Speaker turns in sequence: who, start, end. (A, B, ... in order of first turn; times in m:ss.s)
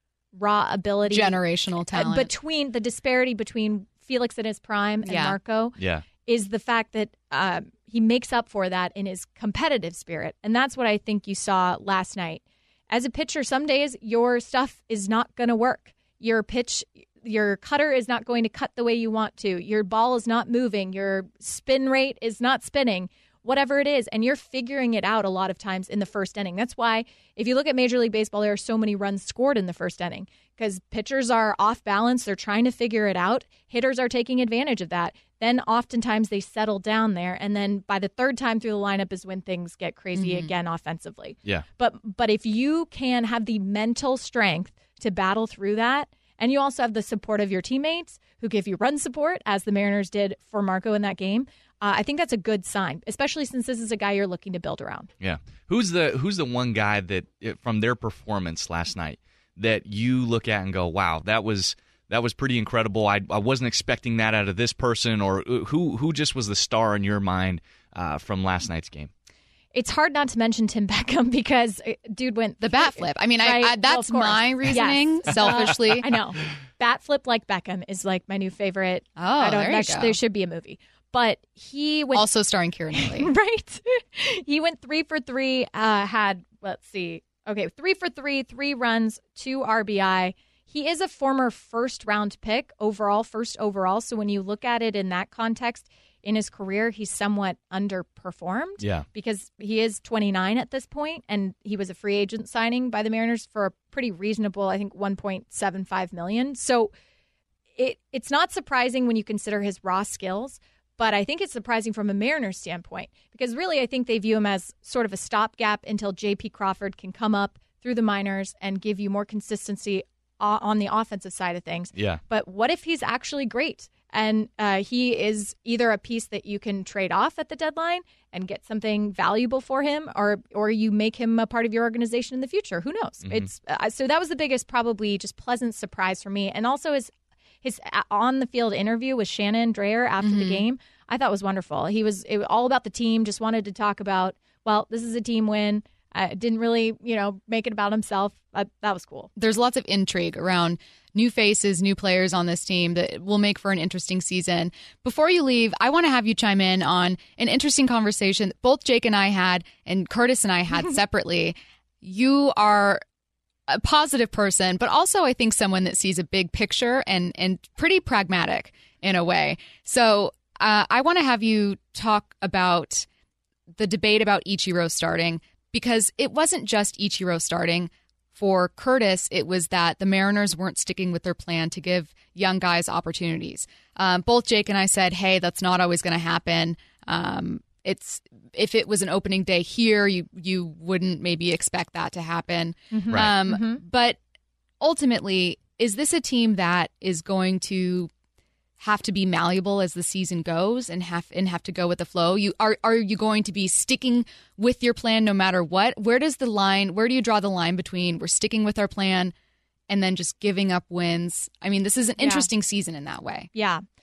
0:00.3-0:55.1 A
0:01.1-0:02.3 B
0:05.0-0:05.4 B
0:05.8-0:06.0 C
0:40.1-0:40.5 B
0:55.2-1:09.1 C
1:09.7-1:22.3 A
1:12.6-1:16.1 B
1:19.2-1:20.2 B
1:22.1-1:23.3 B
1:22.9-1:46.9 A
1:38.8-1:39.0 C
1:47.8-2:17.1 A
2:01.9-2:02.2 C
2:13.2-2:13.5 C
2:17.6-2:29.3 A
2:20.2-2:20.6 B
2:29.4-2:43.0 B
2:43.7-2:53.1 B
2:53.7-3:14.2 B
3:12.9-3:13.8 A
3:14.8-3:18.1 B
3:18.8-3:29.3 B
3:29.9-3:33.5 B
3:32.2-3:32.5 A
3:33.5-3:33.8 A